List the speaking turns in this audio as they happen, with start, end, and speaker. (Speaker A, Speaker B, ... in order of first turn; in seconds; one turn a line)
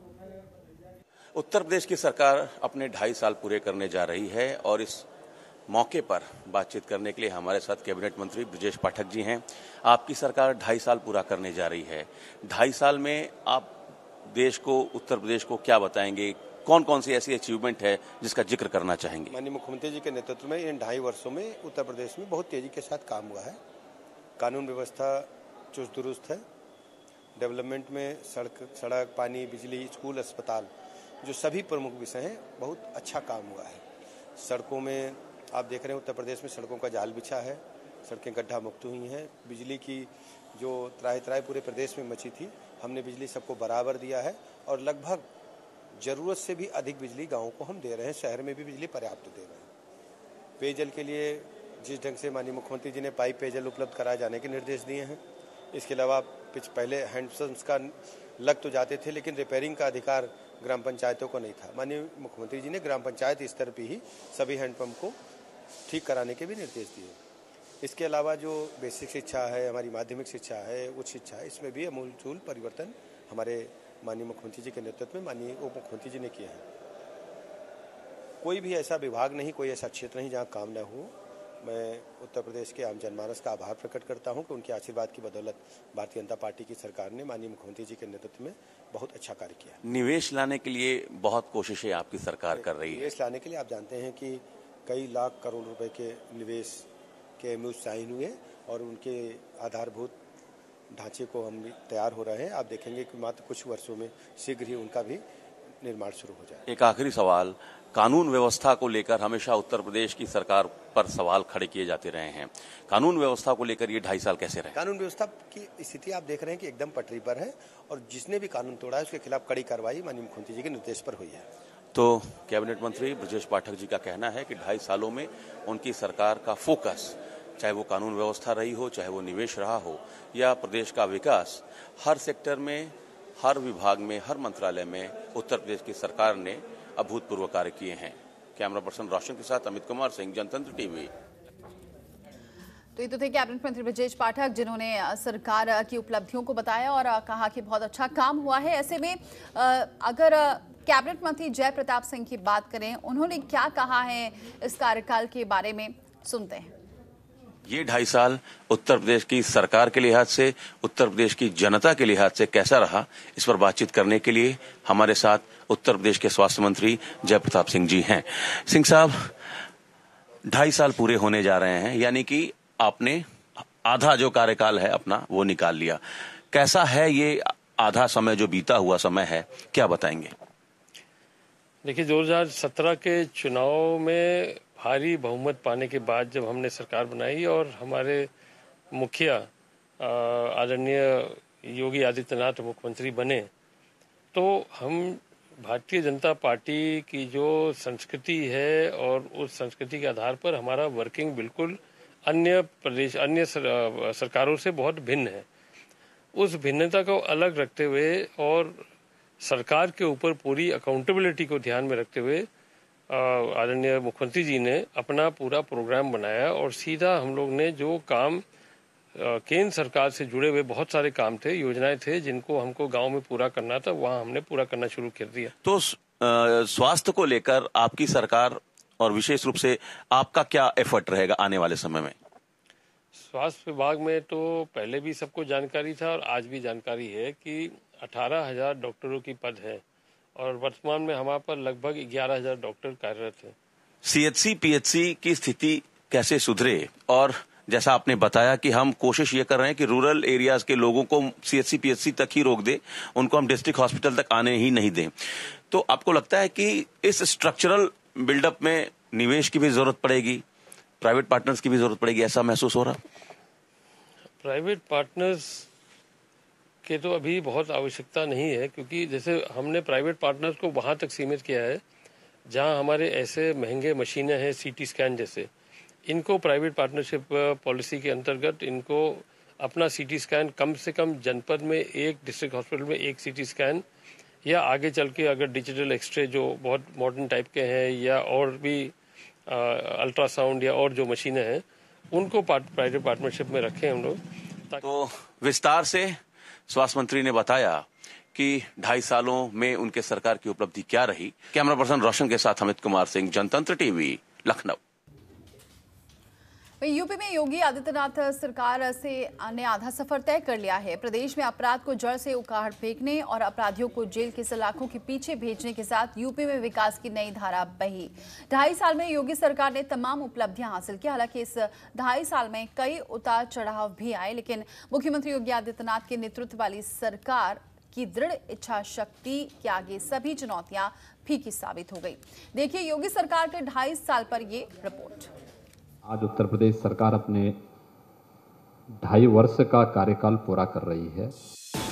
Speaker A: 1.3-5.1
Speaker A: 5.7-13.7
Speaker A: 14.2-19.3
Speaker B: 19.3-23.6
Speaker B: 24.4-26.4
Speaker B: 27.4-30.7
Speaker B: 31.2-33.8
Speaker B: 34.4-45.3
Speaker B: 46.0-49.7
Speaker B: 50.6-55.2
Speaker B: 55.7-65.2
Speaker B: 65.9-67.2
Speaker B: 67.8-76.6
Speaker B: 78.4-89.8
Speaker A: 89.8-93.1
Speaker B: 92.5-96.9
Speaker B: 97.4-100.2
Speaker B: 100.9-105.2
Speaker B: 105.8-106.6
Speaker A: 106.7-114.8
Speaker B: 114.7-121.5
Speaker A: 121.9-141.1
Speaker C: 142.9-156.7
Speaker A: 157.7-169.3
Speaker A: 170.5-173.2
Speaker A: 173.8-180.3
Speaker D: 181.8-188.3
Speaker D: 188.9-189.5
Speaker D: 190.0-193.5
Speaker D: 194.3-205.4
Speaker D: 206.3-208.8
Speaker D: 209.4-212.5
Speaker D: 213.1-218.4
Speaker D: 219.2-225.5
Speaker A: 225.6-232.1
Speaker D: 233.2-239.8
Speaker D: 240.3-243.5
Speaker A: 244.0-260.4
Speaker A: 261.0-263.0
Speaker D: 264.4-265.7
Speaker D: 266.8-271.8
Speaker D: 272.5-275.5
Speaker D: 276.1-283.8
Speaker D: 284.4-288.9
Speaker D: 289.5-294.8
Speaker A: 294.8-296.2
Speaker A: 296.7-304.8
Speaker C: 306.8-335.3
Speaker E: 336.0-337.6
Speaker E: 339.0-341.3